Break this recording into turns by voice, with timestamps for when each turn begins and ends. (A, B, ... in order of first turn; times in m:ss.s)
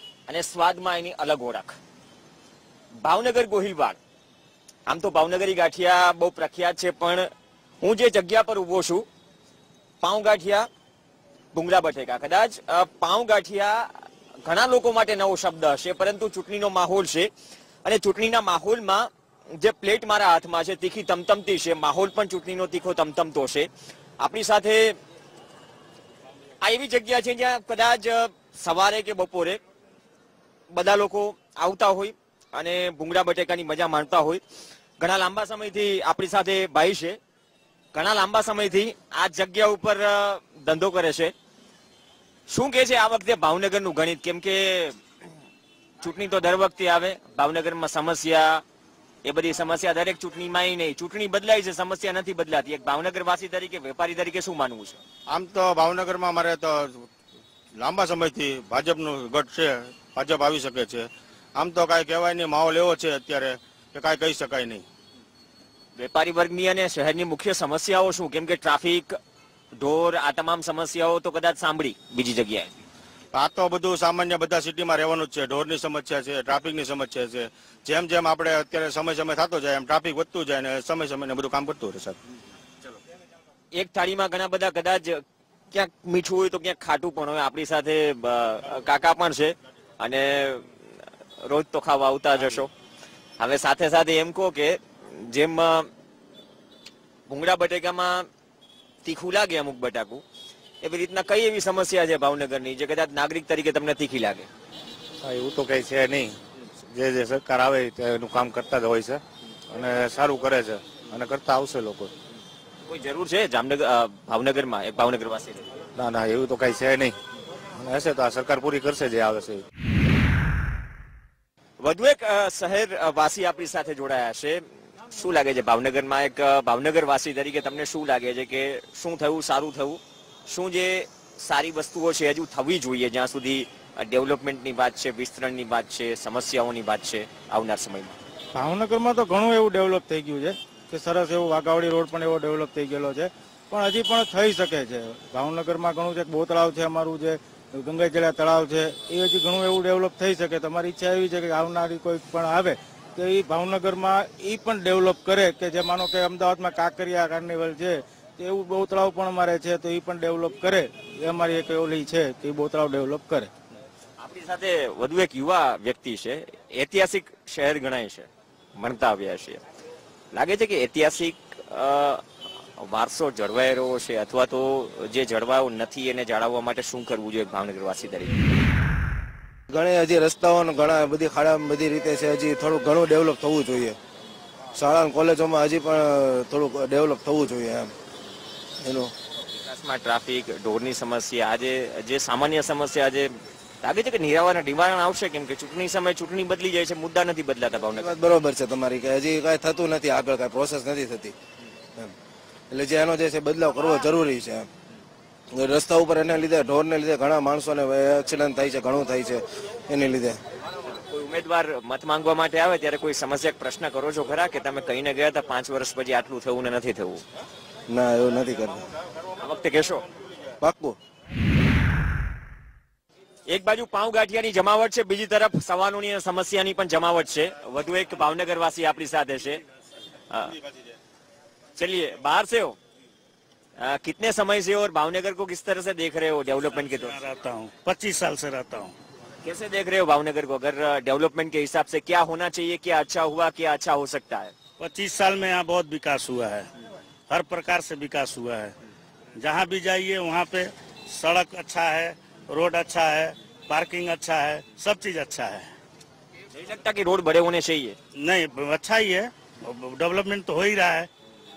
0:00.3-0:01.8 A
0:03.0-0:04.0 A
0:04.9-0:07.3 A
0:07.8-0:09.1 A
0:10.0-0:10.7 A
0:11.5-0:17.3 A
0:17.8-0:23.7 A
0:24.2-0:25.0 A
0:26.6-0:29.6 A
0:30.7-0:34.4 A
0:35.0-0:37.2 A
0:37.9-0:41.3 A
0:42.5-0:45.0 A
0:46.0-0:48.6 A
0:49.2-0:55.0 A
0:55.3-0:57.1 B
0:57.8-1:04.9 B
1:06.0-1:09.2 A
1:09.8-1:12.7 A
1:13.3-1:22.2 B
1:23.7-1:30.7 A
1:31.4-1:32.7 A
1:33.4-1:35.9 A
1:37.3-1:38.3 A
1:39.0-1:40.2 A
1:40.8-1:44.5 A
1:45.2-1:46.4 C
1:46.9-1:52.1 C
1:52.9-1:55.7 A
1:56.0-1:57.2 C
1:57.8-1:59.6 C
2:01.8-2:18.2 A
2:18.5-2:43.5 D
2:44.2-2:49.6 A
2:50.3-2:52.2 A
2:52.8-2:58.4 A
2:59.7-3:04.0 E
3:04.7-3:07.9 E
3:08.8-3:09.1 E
3:09.5-3:18.1 A
3:18.0-3:21.4 E
3:22.7-3:24.7 E
3:25.5-3:30.4 E
3:30.9-3:37.2 A
3:37.9-3:38.9 E
3:39.4-3:40.0 A
3:40.6-3:41.0 E
3:43.5-3:49.6 A
3:50.3-3:50.6 A
3:51.8-3:52.8 A
3:53.8-3:57.2 A
3:56.9-3:58.9 F
3:59.4-4:04.5 A
4:04.8-4:06.7 F
4:07.3-4:08.7 F
4:09.4-4:15.7 F
4:16.5-4:18.0 A
4:18.2-4:21.1 F